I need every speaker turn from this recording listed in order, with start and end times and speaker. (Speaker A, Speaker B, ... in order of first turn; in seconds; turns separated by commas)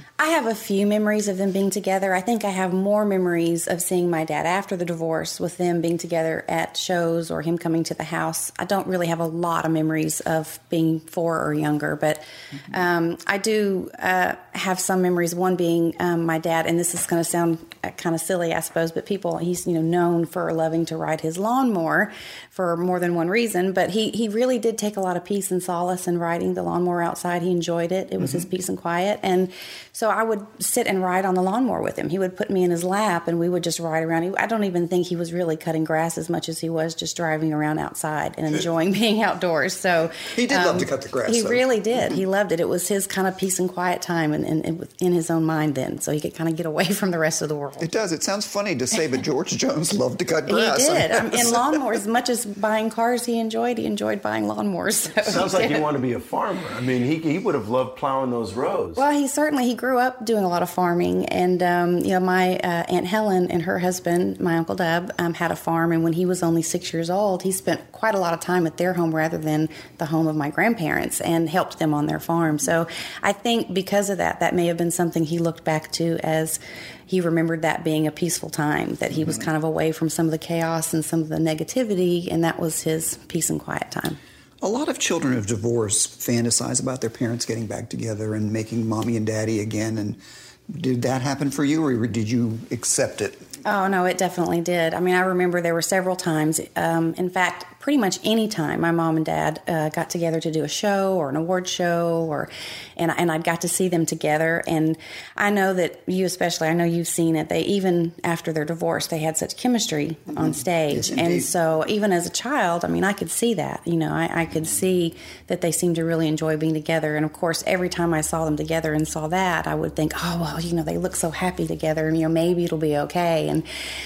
Speaker A: 0.2-47.9, Speaker B: 40.2-42.2, Speaker B: 47.8-52.0, Speaker A: 50.5-55.9, Speaker C: 55.2-59.0, Speaker A: 59.0-84.2, Speaker B: 84.6-93.5, Speaker A: 93.6-123.7, Speaker B: 110.3-111.5